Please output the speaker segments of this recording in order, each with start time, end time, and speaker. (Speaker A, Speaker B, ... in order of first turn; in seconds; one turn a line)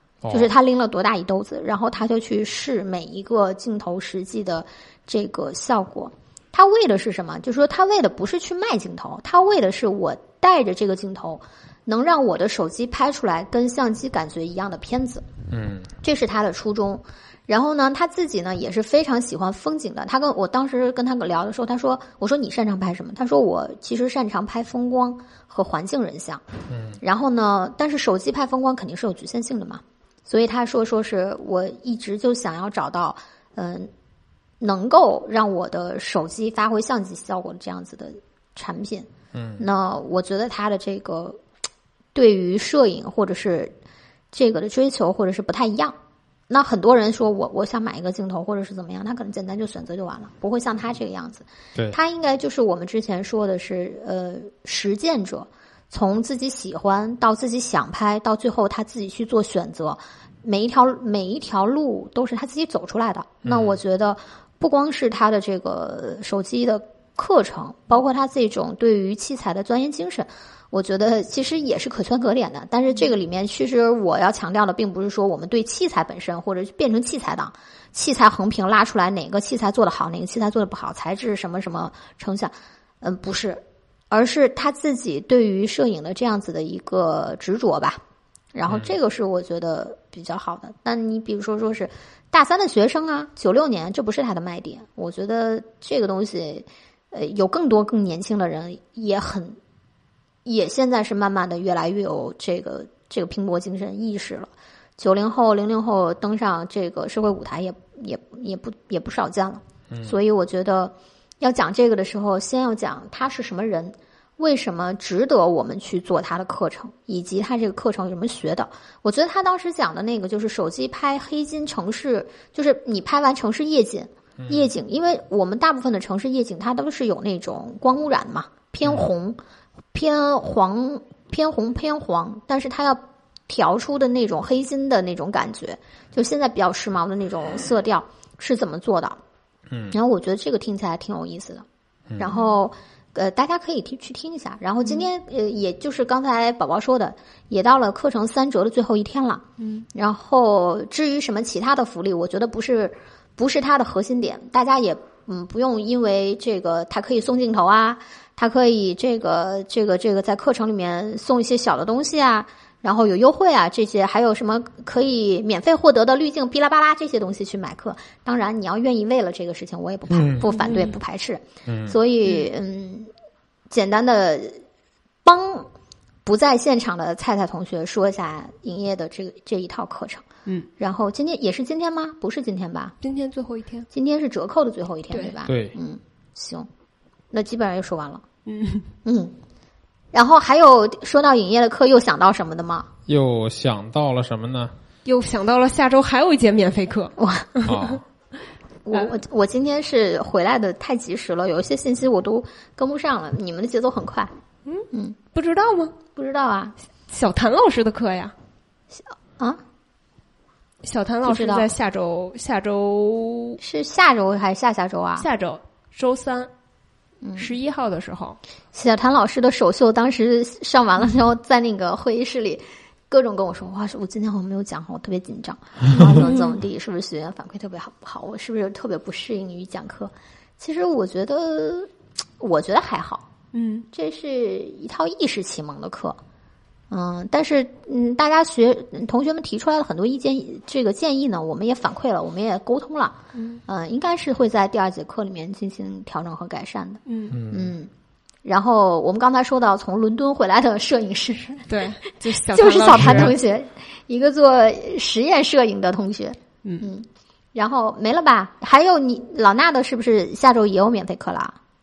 Speaker A: 0.2-0.5
Speaker B: 0.3-15.2
Speaker A: 15.5-15.9
Speaker B: 16.0-26.4
Speaker A: 26.7-27.0
Speaker B: 27.0-33.9
Speaker B: 34.6-41.4
Speaker A: 39.3-39.6
Speaker B: 42.1-43.7
Speaker B: 44.3-45.9
Speaker B: 46.5-88.0
Speaker A: 63.4-63.8
Speaker B: 88.5-99.6
Speaker A: 88.7-88.9
Speaker B: 100.4-129.4
Speaker A: 109.9-110.2
Speaker A: 124.4-124.7
Speaker B: 129.9-139.2
Speaker A: 139.7-139.9
Speaker B: 139.9-141.7
Speaker A: 142.1-142.3
Speaker B: 142.2-149.4
Speaker C: 149.6-149.8
Speaker B: 149.9-173.1
Speaker A: 170.1-170.5
Speaker C: 170.5-170.9
Speaker A: 171.7-171.9
Speaker B: 173.7-174.6
Speaker B: 175.2-175.7
Speaker B: 176.2-180.2
Speaker B: 180.8-182.9
Speaker C: 183.0-183.9
Speaker B: 183.9-186.7
Speaker A: 185.4-185.7
Speaker B: 187.3-188.2
Speaker C: 188.4-188.9
Speaker B: 189.0-189.3
Speaker B: 190.1-192.9
Speaker A: 193.1-194.7
Speaker C: 195.0-197.8
Speaker B: 197.2-197.7
Speaker A: 197.6-198.0
Speaker B: 198.8-204.3
Speaker C: 204.7-205.9
Speaker B: 204.9-205.2
Speaker B: 206.1-206.7
Speaker C: 207.1-208.3
Speaker B: 208.9-209.6
Speaker C: 210.8-213.6
Speaker B: 211.2-211.7
Speaker B: 213.6-215.3
Speaker C: 215.2-216.5
Speaker B: 217.2-217.5
Speaker C: 217.3-218.4
Speaker B: 218.7-233.2
Speaker C: 226.0-226.5
Speaker C: 233.5-233.9
Speaker B: 233.9-236.2
Speaker B: 236.9-247.9
Speaker C: 243.3-243.6
Speaker C: 247.1-247.4
Speaker A: 247.3-247.7
Speaker B: 248.4-251.7
Speaker C: 251.7-253.3
Speaker B: 252.5-261.6
Speaker A: 253.0-253.3